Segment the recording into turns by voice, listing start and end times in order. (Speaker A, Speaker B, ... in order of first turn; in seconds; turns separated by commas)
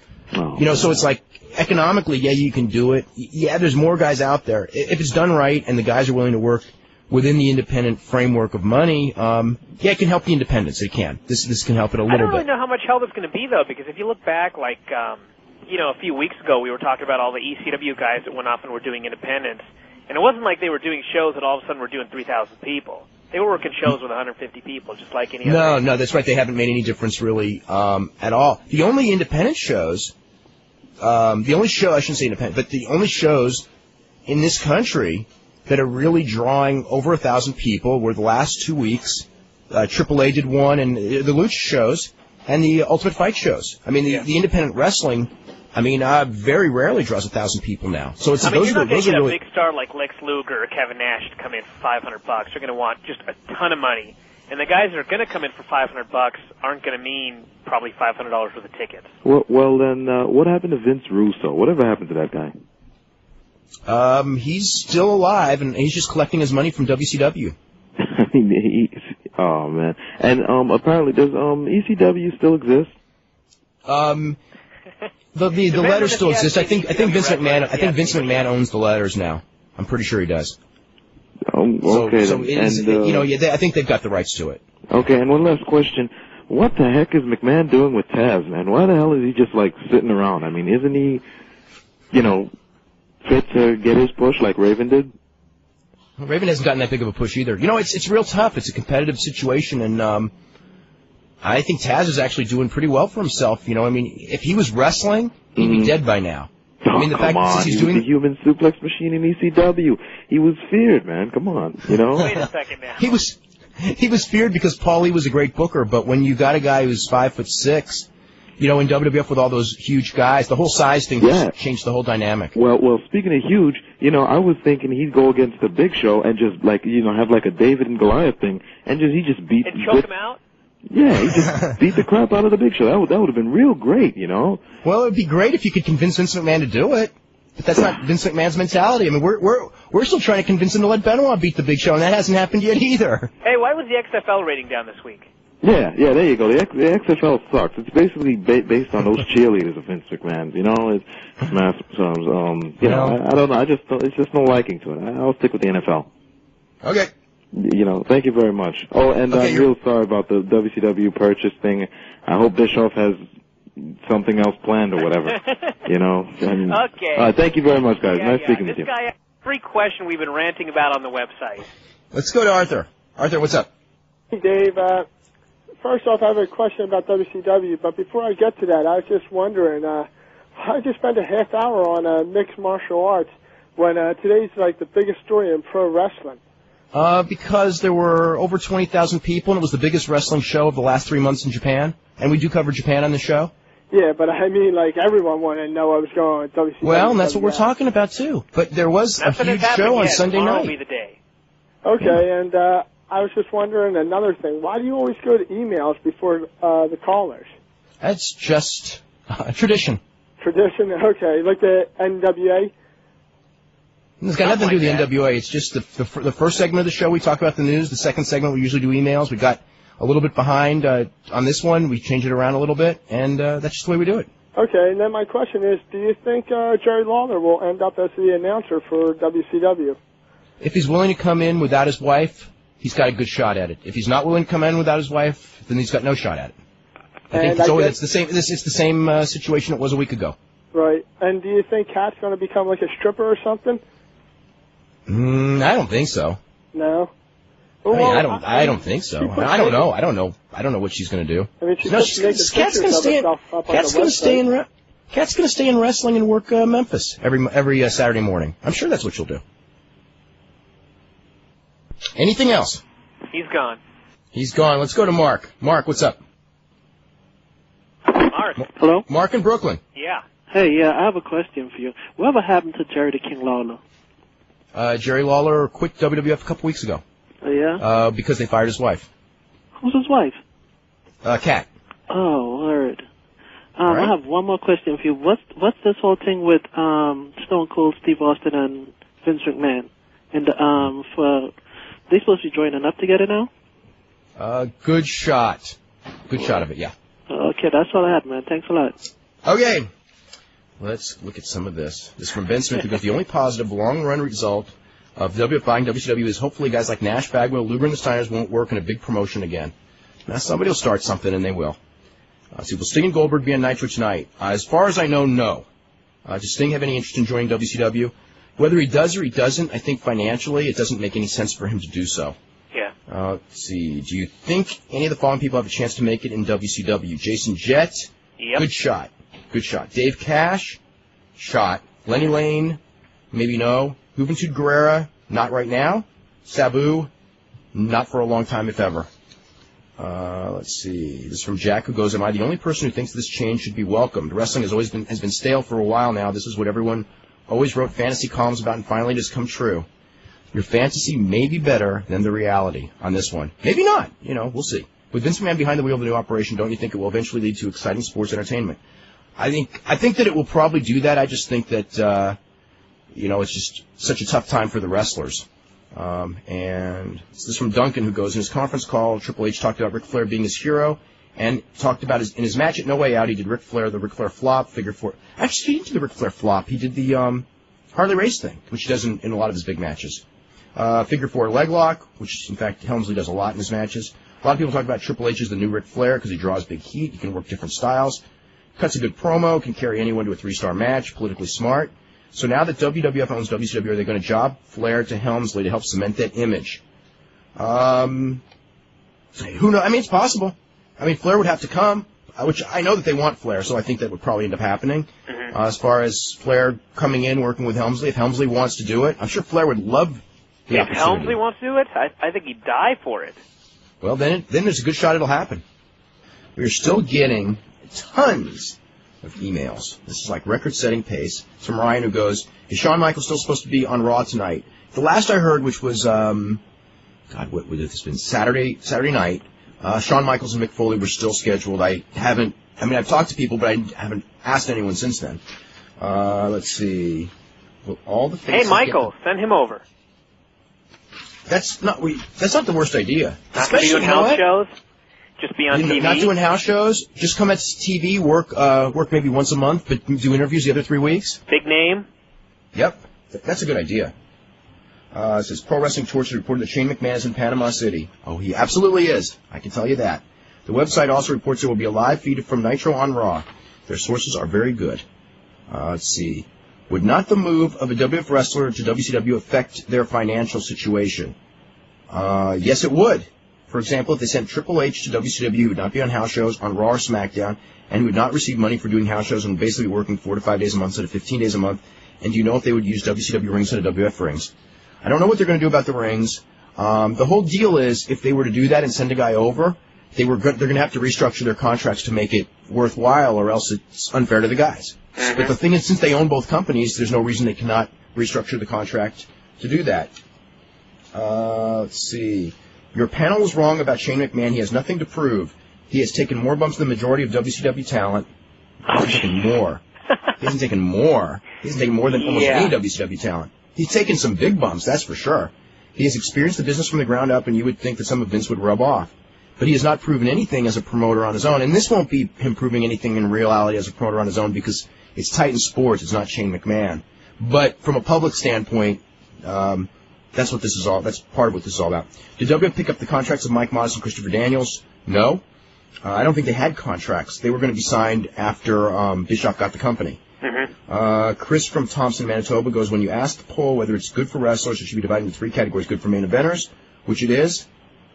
Speaker A: 0.3-1.0, Speaker B: 0.5-12.4, Speaker C: 12.1-25.8, Speaker B: 25.4-30.1, Speaker B: 31.0-33.6, Speaker B: 34.2-49.4, Speaker C: 48.4-59.1, Speaker A: 59.2-62.5, Speaker B: 63.9-67.5, Speaker A: 68.0-72.9, Speaker B: 73.8-74.4, Speaker B: 75.3-80.6, Speaker C: 75.7-78.5, Speaker A: 81.5-83.3, Speaker B: 81.8-84.6, Speaker A: 84.9-91.2, Speaker A: 92.1-92.5, Speaker A: 93.2-95.1, Speaker B: 96.2-100.3, Speaker B: 101.4-108.0, Speaker A: 105.5-105.9, Speaker A: 106.8-112.4, Speaker C: 112.2-113.2, Speaker B: 112.2-118.1, Speaker B: 118.6-122.5, Speaker A: 121.2-121.5, Speaker A: 122.5-130.1, Speaker C: 129.7-130.4, Speaker A: 130.9-134.6, Speaker B: 134.8-143.3, Speaker C: 143.4-145.2, Speaker A: 145.6-156.1, Speaker B: 152.8-153.2, Speaker B: 156.8-157.1, Speaker A: 157.5-163.2, Speaker B: 159.3-159.7, Speaker A: 163.8-168.9, Speaker C: 166.7-167.3, Speaker C: 168.0-171.6, Speaker B: 172.1-173.7, Speaker D: 174.3-175.1, Speaker D: 175.8-186.4, Speaker B: 186.9-193.5, Speaker D: 193.9-197.7, Speaker B: 196.8-200.7, Speaker C: 199.2-201.1, Speaker D: 201.8-207.5, Speaker B: 208.0-210.0, Speaker D: 210.4-212.7, Speaker B: 214.2-224.3, Speaker C: 214.4-215.1, Speaker D: 224.6-230.0, Speaker B: 230.6-236.5, Speaker B: 237.3-240.3, Speaker D: 237.3-238.0, Speaker D: 240.7-243.8, Speaker B: 245.1-246.4, Speaker D: 246.7-247.1, Speaker D: 247.8-249.8, Speaker B: 247.9-259.4, Speaker D: 251.6-254.4, Speaker B: 262.1-262.8, Speaker C: 263.3-263.8, Speaker B: 264.3-266.2, Speaker C: 268.1-268.6, Speaker E: 268.8-269.0, Speaker B: 269.1-269.8, Speaker C: 269.9-270.2, Speaker E: 270.5-273.8, Speaker B: 274.7-277.0, Speaker E: 277.4-277.8, Speaker B: 277.8-279.1, Speaker E: 279.8-280.4, Speaker B: 281.2-281.7, Speaker E: 282.1-283.0, Speaker E: 283.8-291.5, Speaker B: 283.9-284.1, Speaker E: 292.1-293.5, Speaker B: 294.4-296.9, Speaker E: 297.3-298.9, Speaker B: 299.4-299.9, Speaker B: 300.8-309.7, Speaker B: 310.2-311.8, Speaker B: 312.5-315.6, Speaker B: 316.2-322.4, Speaker B: 323.1-330.8, Speaker C: 328.4-328.6, Speaker B: 331.4-332.8, Speaker B: 333.3-337.1, Speaker B: 337.7-339.1, Speaker B: 340.0-349.9, Speaker B: 350.5-358.8, Speaker B: 359.4-362.4, Speaker B: 363.1-380.2, Speaker B: 380.8-388.2, Speaker B: 388.8-396.8, Speaker B: 397.6-398.4, Speaker B: 399.3-411.4, Speaker C: 410.7-413.4, Speaker B: 414.0-415.6, Speaker B: 416.6-426.6, Speaker B: 427.3-435.4, Speaker B: 436.0-437.3, Speaker B: 437.8-439.1, Speaker C: 438.5-439.8, Speaker B: 441.5-444.4, Speaker C: 443.5-444.7, Speaker C: 445.4-446.3, Speaker B: 445.7-451.4, Speaker C: 451.5-452.0, Speaker B: 452.7-454.1, Speaker B: 455.1-465.0, Speaker B: 465.7-471.3, Speaker B: 472.1-484.5, Speaker B: 485.0-500.1, Speaker C: 495.2-495.5, Speaker B: 501.1-508.3, Speaker B: 508.8-509.8, Speaker C: 508.9-509.2, Speaker B: 510.4-535.4, Speaker C: 512.1-512.7, Speaker B: 536.0-540.2, Speaker C: 540.4-540.7, Speaker B: 540.9-547.7